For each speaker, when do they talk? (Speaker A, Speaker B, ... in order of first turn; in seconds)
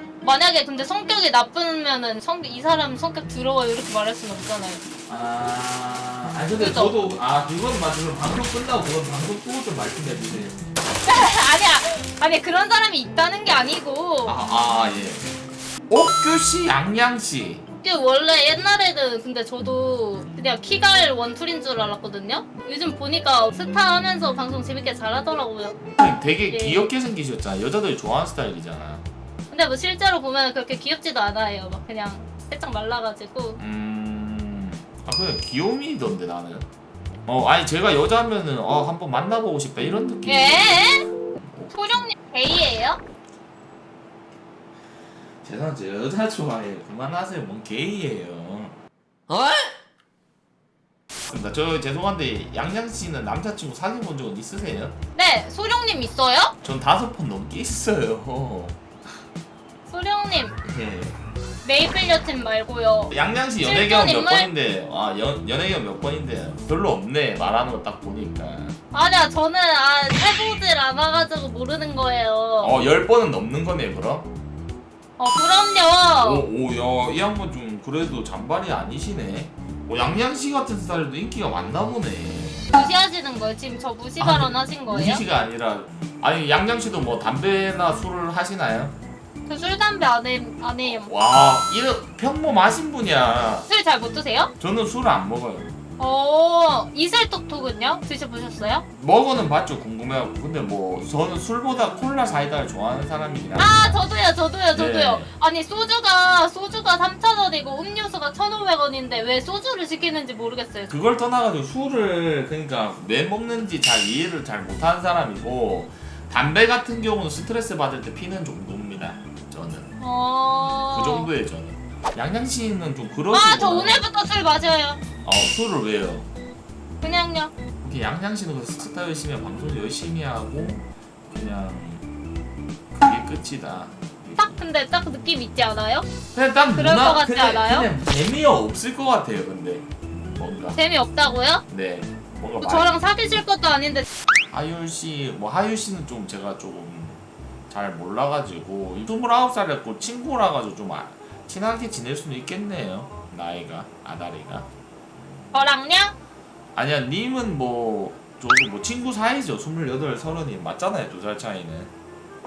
Speaker A: 0.2-4.8, 6.5-7.0, 11.0-14.4, 17.8-26.9, 29.5-33.6, 40.2-41.1, 41.7-43.0, 55.1-56.5, 59.9-60.6, 61.6-64.5, 68.9-72.7, 75.2-76.5, 82.7-85.2, 89.5-91.1, 93.7-94.5, 96.0-98.8, 103.6-110.9, 120.0-121.3, 123.3-125.0, 127.0-127.5, 134.3-136.1, 136.7-137.9, 140.8-141.6, 142.6-144.1, 155.5-156.1
Speaker B: 5.1-10.7, 14.2-15.3, 15.9-17.6, 25.8-29.0, 33.6-36.7, 37.3-40.8, 41.4-42.1, 45.4-48.8, 49.3-49.7, 51.3-54.9, 56.6-58.8, 60.6-61.2, 63.1-68.8, 72.6-74.3, 76.2-82.7, 84.2-89.0, 91.0-93.7, 94.6-95.7, 99.0-104.0, 104.7-105.3, 110.9-120.0, 120.7-124.0, 125.2-126.3, 127.8-132.1, 132.9-134.6, 136.3-140.8, 141.7-142.9, 144.5-155.7, 156.7-161.9